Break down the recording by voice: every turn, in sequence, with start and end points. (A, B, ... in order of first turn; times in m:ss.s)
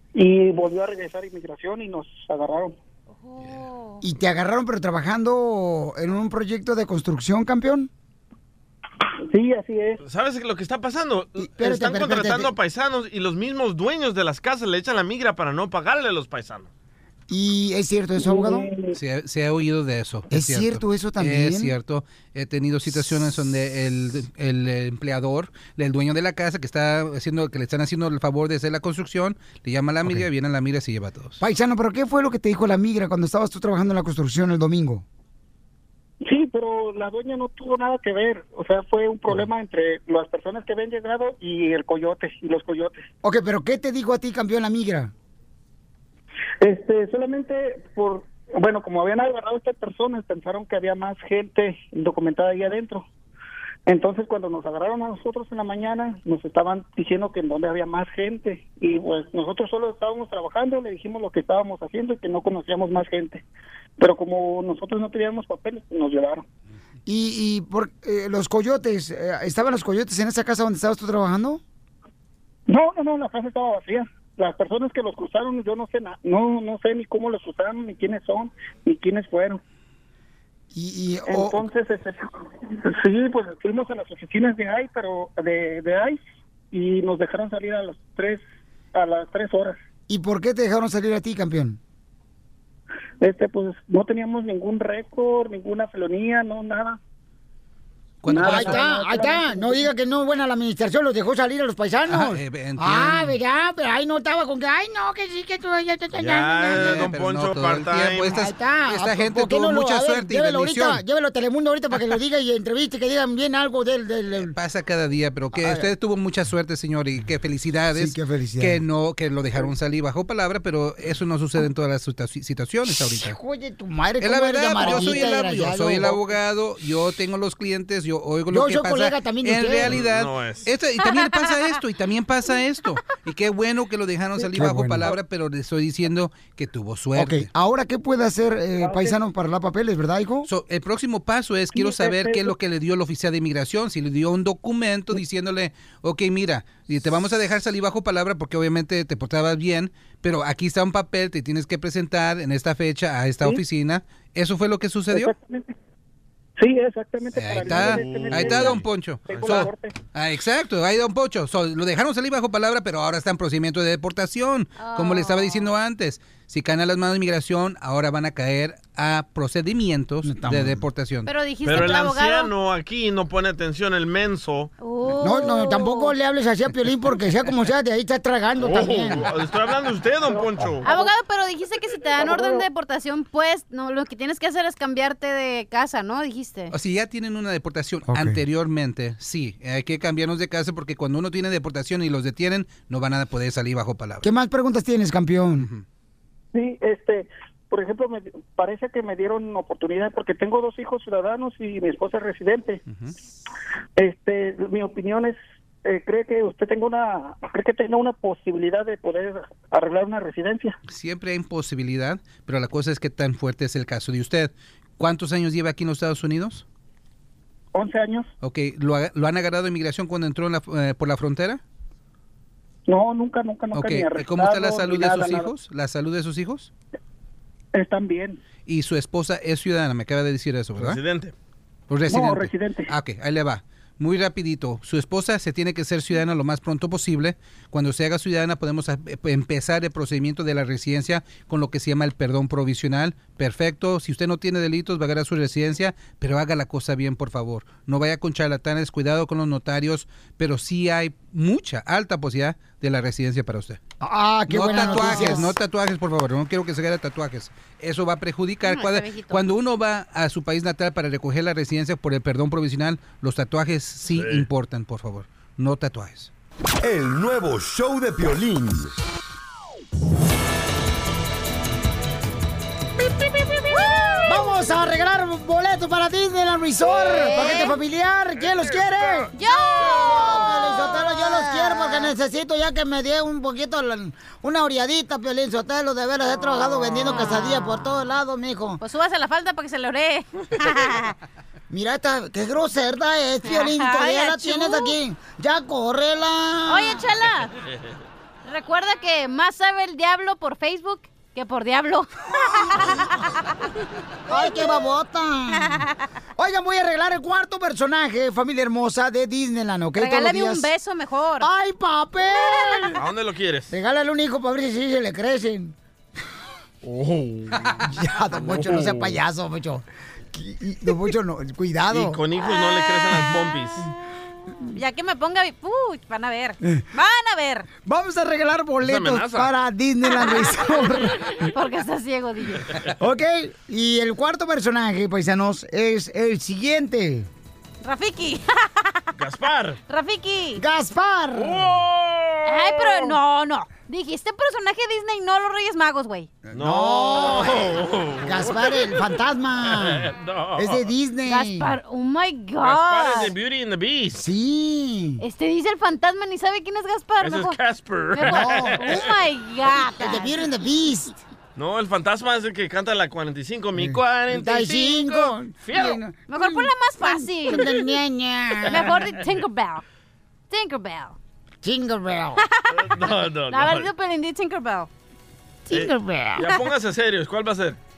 0:00.2-0:02.8 A
0:03.2-0:04.0 B
0:04.0-0:07.9 C
0:09.3-0:10.0 A
0:10.0-0:16.7 D
0:11.4-0:12.5 C
0:17.3-0:18.7 C
0:18.2-0:19.0 A
0:18.9-0:31.4 E
0:20.3-0:21.8 C
0:31.4-0:35.0 C
0:36.2-0:43.1 A
0:43.2-0:45.1 C
0:46.6-0:53.0 A
0:53.9-1:03.4 A
1:04.0-1:06.4 A
1:07.1-1:11.6 C
1:12.7-1:19.6 A
1:20.7-1:21.6 C
1:21.3-1:26.2 A
1:26.7-1:28.4 A
1:28.9-1:29.8 A
1:30.1-1:31.8 C
1:33.2-1:37.0 A
1:38.2-1:38.8 E
1:38.3-1:39.9 A
1:38.4-1:47.1 C
1:42.1-1:43.3 E
1:46.2-1:48.4 D
1:46.7-1:51.0 E
1:48.2-1:54.6 C
1:54.4-2:03.4 E
1:55.5-1:55.9 C
1:57.9-1:58.8 C
2:02.9-2:06.2 C
2:04.2-2:17.5 E
2:08.5-2:10.0 C
2:09.8-2:10.7 D
2:11.0-2:11.3 B
2:14.5-2:15.2 C
2:17.2-2:20.5 C
2:18.8-2:19.2 A
2:20.5-2:35.3 E
2:21.7-2:22.6 A
2:35.1-2:35.7 A
2:36.6-2:39.9 A
2:37.3-2:51.3 E
2:37.7-2:39.5 D
2:44.8-2:45.7 B
2:50.2-2:50.8 C
2:51.2-2:52.5 B
2:51.6-2:54.7 D
2:54.8-2:56.1 B
2:55.2-2:59.3 C
2:58.6-3:00.9 D
3:00.8-3:06.7 B
3:02.2-3:02.6 A
3:06.7-3:14.3 E
3:08.1-3:08.4 C
3:14.2-3:15.7 C
3:15.6-3:15.8 E
3:16.5-3:22.8 A
3:24.0-3:30.8 A
3:30.9-3:36.6 E
3:37.7-3:38.3 A
3:38.4-3:41.6 E
3:42.9-3:45.5 A
3:43.7-3:46.7 E
3:47.7-3:48.4 A
3:48.7-3:51.0 E
3:50.8-3:51.3 D
3:51.9-4:13.8 E
3:52.1-3:52.9 A
4:14.0-4:15.6 C
4:14.5-4:26.3 E
4:18.6-4:19.4 B
4:24.1-4:24.5 D
4:26.8-4:28.9 F
4:33.7-4:34.6 B
4:34.2-4:39.3 C
4:36.9-4:37.8 B
4:38.4-4:39.2 D
4:39.4-4:41.4 B
4:39.8-4:48.8 C
4:47.0-4:47.6 B
4:48.8-4:51.2 B
4:51.7-4:57.1 C
4:53.4-4:55.0 B
4:56.7-4:57.5 B
4:58.4-5:03.3 B
5:04.3-5:05.8 C
5:06.4-5:10.7 C
5:10.0-5:11.5 B
5:11.4-5:13.0 C
5:13.0-5:13.7 D
5:13.7-5:15.8 C
5:16.8-5:17.7 D
5:17.8-5:22.2 C
5:18.5-5:19.1 D
5:21.9-5:23.9 D
5:22.5-5:23.3 B
5:24.7-5:27.7 B
5:27.8-5:31.4 C
5:28.8-5:29.5 D
5:30.2-5:30.6 B
5:31.5-5:32.7 B
5:33.0-5:37.3 C
5:37.8-5:39.1 B
5:39.2-5:39.8 D
5:39.9-5:40.6 B
5:40.6-5:41.7 C
5:41.4-5:43.1 D
5:42.5-5:46.3 B
5:46.5-5:47.7 C
5:46.5-5:49.0 D
5:48.2-5:51.7 C
5:49.7-5:50.8 D
5:51.3-5:53.4 B
5:52.6-5:54.2 D
5:54.1-5:55.2 C
5:55.2-5:57.6 B
5:57.2-5:59.1 D
5:58.1-6:00.3 B
5:58.2-5:59.1 C
5:59.9-6:01.2 C
6:01.6-6:06.0 D
6:03.8-6:08.9 C
6:06.3-6:07.8 B
6:08.7-6:09.8 B
6:08.8-6:09.2 D
6:10.5-6:11.2 B
6:11.6-6:12.4 C
6:12.4-6:12.7 B
6:12.7-6:13.9 D
6:13.5-6:14.9 B
6:15.7-6:16.5 C
6:15.7-6:17.8 D